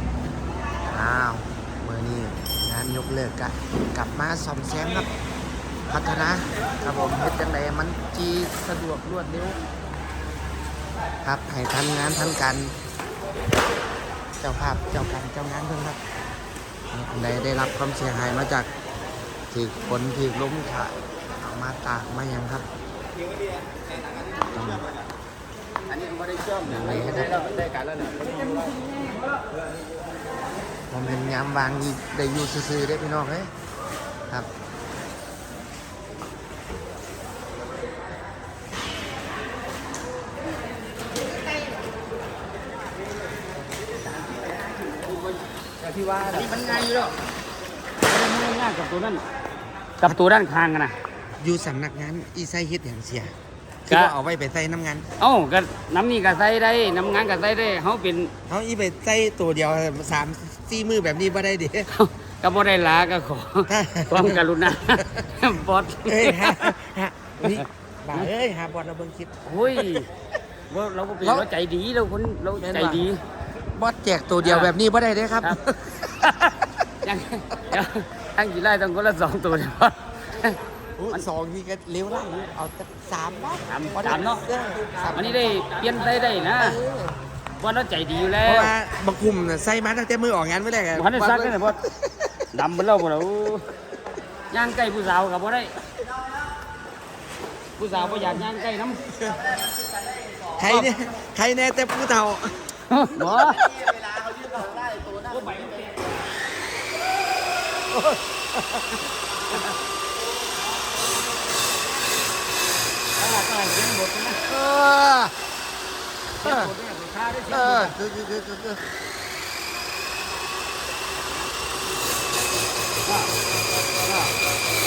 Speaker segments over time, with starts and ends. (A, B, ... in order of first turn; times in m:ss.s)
0:00.9-0:05.1 A
0:05.9-0:09.6 A
0:11.2-0:12.8 A
0:14.4-0:16.0 A
0:16.9-0:18.7 A
0:19.5-0:22.6 A
0:24.5-0:24.9 A
0:25.9-0:28.9 B
0:26.6-0:27.4 A
0:30.9-0:33.5 A
0:45.9-0:46.5 A
0:46.2-0:47.1 B
0:48.0-0:49.2 B
0:50.0-0:51.0 B
0:51.4-0:53.3 A
0:53.9-0:55.1 A
0:53.9-0:54.1 B
0:55.2-0:58.3 B
0:58.5-1:01.9 A
1:01.9-1:06.7 B
1:03.7-1:05.1 A
1:06.1-1:10.0 A
1:07.4-1:08.3 B
1:09.5-1:10.1 B
1:10.7-1:13.2 B
1:11.2-1:11.5 A
1:12.6-1:13.1 A
1:13.8-1:16.3 A
1:14.4-1:14.7 B
1:16.2-1:20.6 B
1:21.0-1:25.7 A
1:23.7-1:24.4 B
1:25.1-1:26.8 B
1:26.6-1:27.2 A
1:27.6-1:28.7 B
1:28.4-1:32.4 A
1:30.9-1:31.8 B
1:32.5-1:33.6 B
1:34.5-1:35.7 B
1:37.8-1:39.0 B
1:40.6-1:42.5 A
1:42.9-1:43.8 B
1:45.2-1:46.1 B
1:47.9-1:49.0 A
1:53.2-1:54.4 B
1:54.5-1:55.3 A
1:56.4-1:58.0 B
1:56.4-1:56.7 A
1:57.5-1:58.8 A
2:04.1-2:04.3 B